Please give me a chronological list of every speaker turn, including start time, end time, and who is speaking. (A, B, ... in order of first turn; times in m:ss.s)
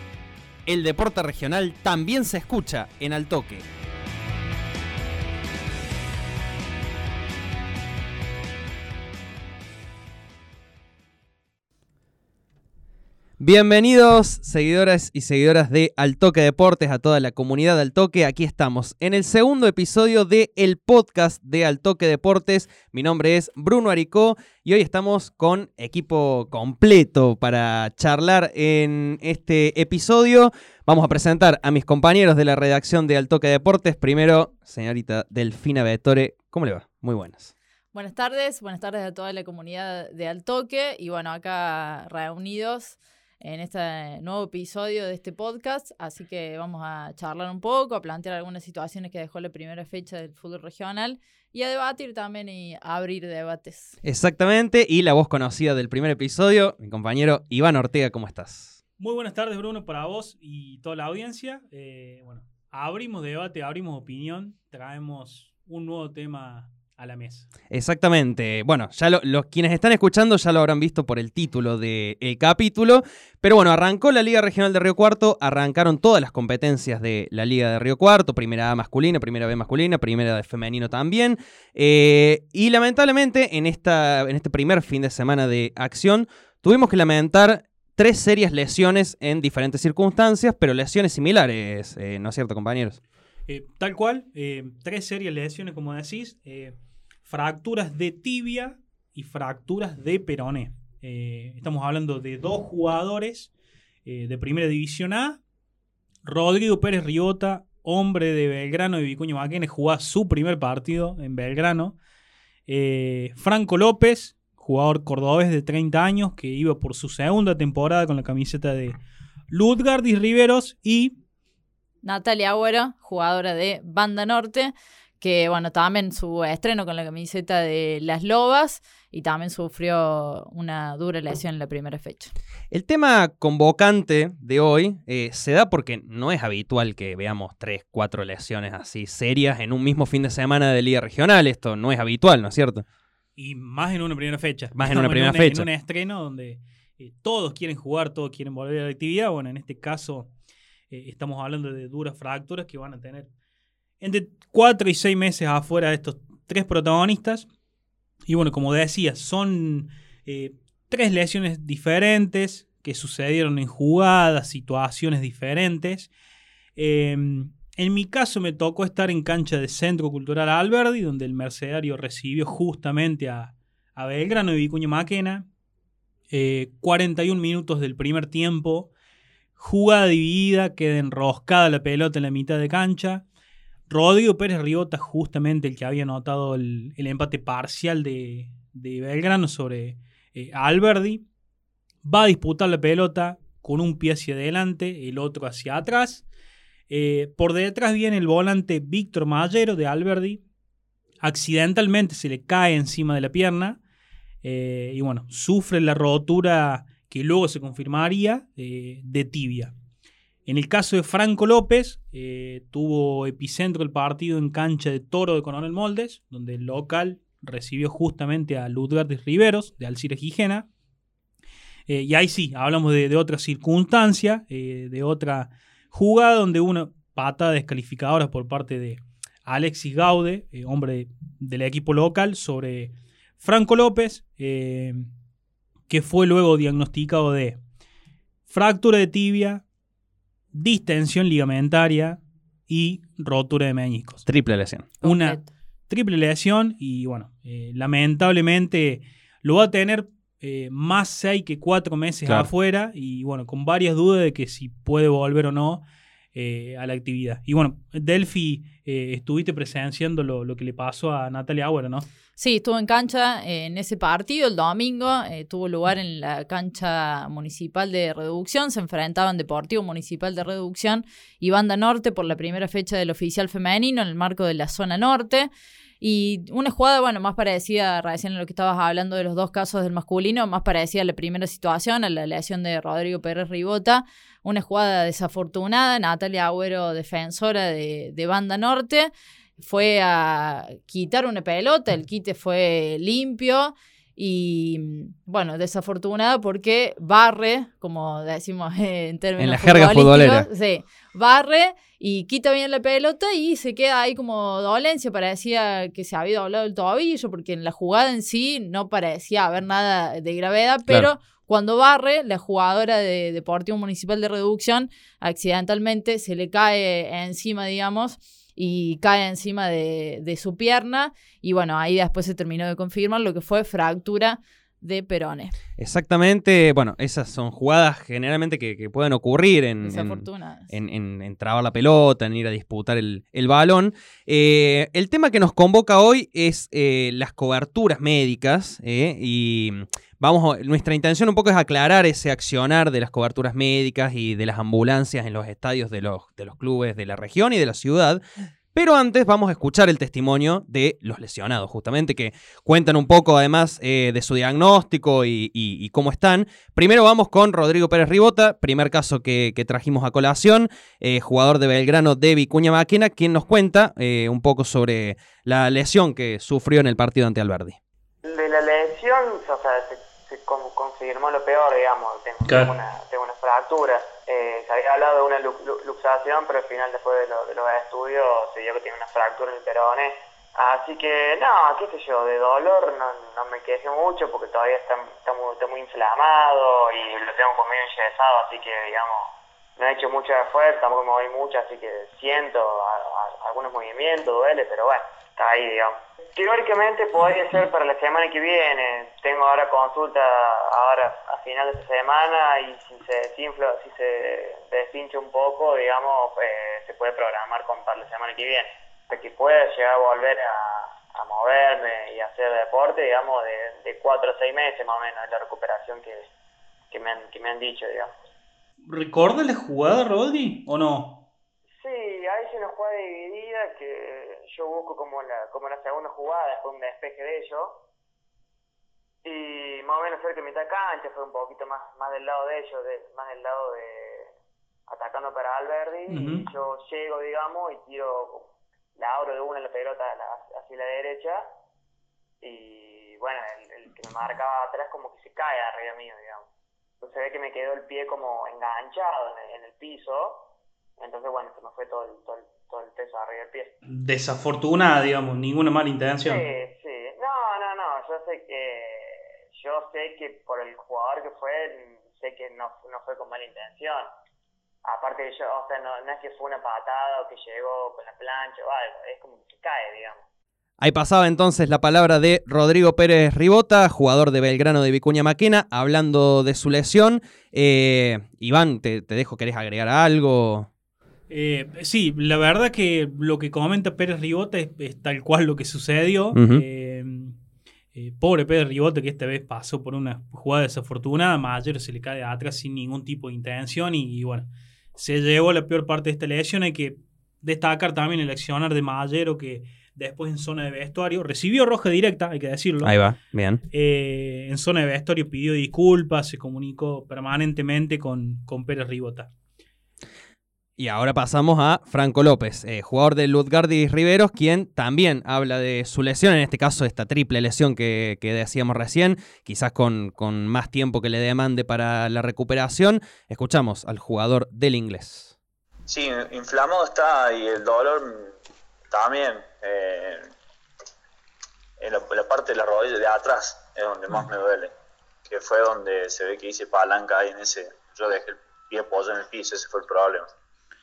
0:00.6-0:03.6 A
0:13.4-0:37.5 A
0:37.9-0:53.9 B
0:54.0-0:58.8 A
0:59.0-1:07.5 C
1:07.7-1:33.0 A
1:33.5-1:36.7 C
1:37.3-1:43.5 C
1:44.0-1:45.4 C
1:46.2-1:52.0 C
1:52.7-1:59.0 C
1:59.5-2:01.1 C
2:02.0-2:12.3 B
2:12.7-2:22.8 A
2:23.4-2:30.3 C
2:24.7-2:25.7 A
2:30.9-2:33.3 C
2:34.0-2:37.5 C
2:38.3-2:46.1 C
2:46.8-2:55.4 C
2:56.3-2:58.9 C
2:59.6-3:03.2 C
3:03.9-3:11.2 C
3:12.0-3:16.2 C
3:16.9-3:20.4 C
3:21.2-3:23.8 C
3:24.4-3:29.7 C
3:30.5-3:40.7 C
3:41.9-3:55.1 C
3:55.9-3:57.6 C
3:58.5-3:59.6 C
4:00.5-4:04.2 C
4:04.3-4:05.0 A
4:05.0-4:15.8 C
4:05.0-4:05.4 B
4:16.3-4:22.1 C
4:22.4-4:35.5 B
4:36.0-5:25.5 B
4:59.4-5:00.5 A
5:25.8-5:48.2 A
5:29.8-5:30.7 B
5:48.7-6:07.8 A
6:08.2-6:56.3 D
6:12.4-6:12.7 C
6:56.9-6:58.1 D
6:58.8-7:01.2 C
7:01.8-7:07.8 D
7:09.2-7:14.3 D
7:14.9-7:21.4 D
7:16.1-7:16.5 C
7:22.4-7:26.5 D
7:27.0-7:30.5 D
7:31.0-7:33.7 D
7:33.9-7:36.4 C
7:36.2-7:44.1 D
7:44.8-7:50.2 D
7:50.8-8:00.7 A
8:01.3-8:07.4 C
8:06.3-8:06.6 A
8:07.9-8:22.9 C
8:22.8-8:23.6 A
8:23.7-8:29.3 C
8:30.8-8:45.3 A
8:45.9-8:48.3 E
8:48.9-8:50.3 E
8:51.8-8:54.7 E
8:55.3-9:00.3 E